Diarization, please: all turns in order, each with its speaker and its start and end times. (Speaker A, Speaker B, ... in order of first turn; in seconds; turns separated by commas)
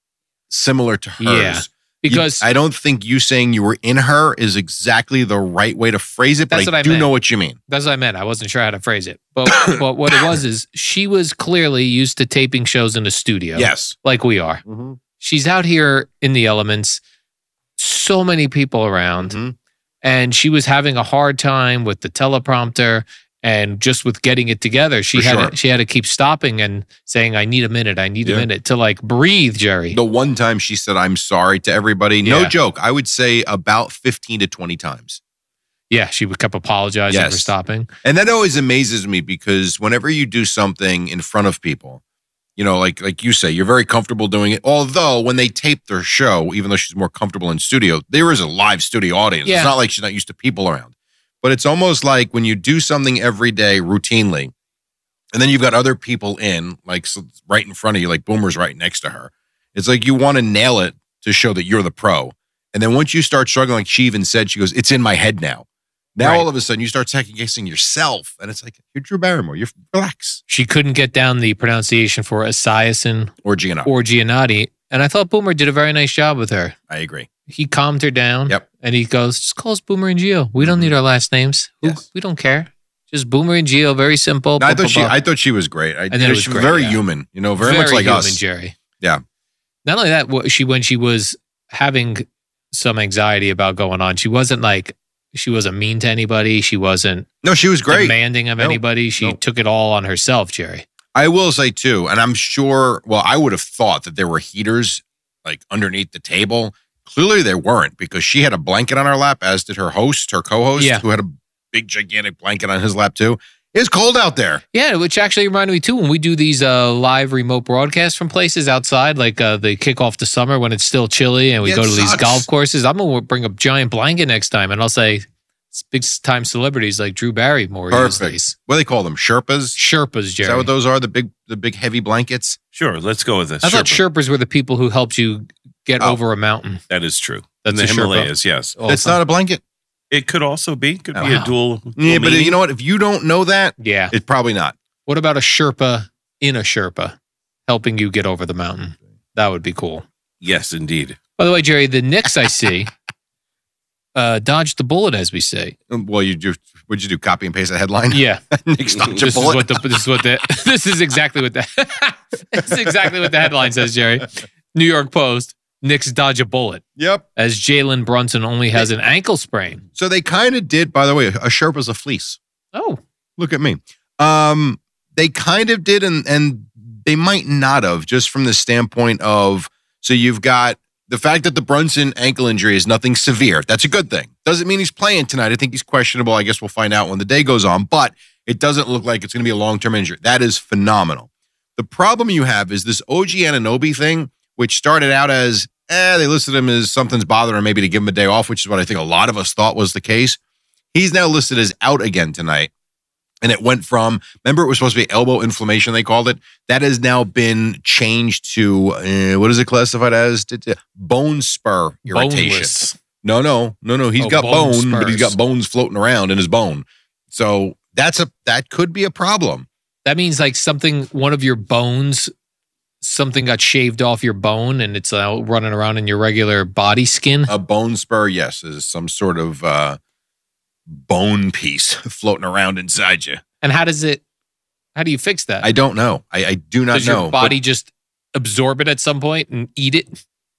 Speaker A: 0.5-7.6, Speaker B: 1.2-2.5, Speaker B: 6.5-7.1, Speaker B: 7.7-14.6, Speaker A: 9.5-9.8, Speaker A: 13.6-13.9, Speaker A: 14.7-15.0, Speaker B: 15.2-17.0, Speaker B: 17.8-19.4, Speaker A: 19.3-19.5, Speaker B: 20.0-30.0, Speaker A: 25.1-25.5, Speaker A: 29.9-35.2, Speaker B: 32.2-32.5, Speaker B: 35.9-37.9, Speaker A: 37.1-37.5, Speaker A: 38.0-42.0, Speaker A: 42.6-54.5, Speaker B: 49.4-49.7, Speaker A: 55.3-70.4, Speaker B: 66.2-66.5, Speaker B: 70.5-73.3, Speaker A: 73.4-73.9, Speaker B: 73.8-76.8, Speaker A: 76.9-77.3, Speaker B: 77.5-85.1, Speaker A: 80.6-80.9, Speaker A: 84.6-88.4, Speaker B: 86.1-87.0, Speaker B: 87.6-88.8, Speaker B: 89.8-97.3, Speaker A: 97.4-99.4, Speaker B: 97.9-100.8, Speaker A: 101.1-114.6, Speaker B: 110.8-111.0, Speaker B: 114.7-128.5, Speaker A: 121.6-122.5, Speaker A: 127.9-129.8, Speaker B: 129.8-130.7, Speaker A: 130.4-132.6, Speaker C: 132.7-134.0, Speaker B: 133.6-136.8, Speaker C: 136.9-138.8, Speaker B: 137.6-139.2, Speaker A: 138.8-139.6, Speaker C: 140.1-142.6, Speaker B: 141.2-141.5, Speaker A: 141.9-144.7, Speaker B: 143.8-144.1, Speaker B: 145.1-147.2, Speaker B: 147.7-150.0, Speaker C: 150.4-151.2, Speaker B: 151.4-152.9, Speaker B: 154.1-155.8, Speaker A: 155.9-159.8, Speaker B: 158.1-158.4, Speaker B: 159.1-166.8, Speaker A: 167.0-167.2, Speaker B: 167.3-169.8, Speaker A: 169.9-172.4, Speaker B: 172.7-173.0, Speaker A: 173.4-200.4, Speaker A: 200.9-202.7, Speaker A: 203.4-219.7, Speaker B: 212.1-213.0, Speaker B: 214.2-215.3, Speaker B: 220.0-222.3, Speaker B: 223.0-227.5, Speaker A: 227.5-230.0, Speaker A: 230.9-233.4, Speaker B: 233.6-234.2, Speaker B: 234.9-235.7, Speaker A: 235.6-237.5, Speaker B: 236.9-240.2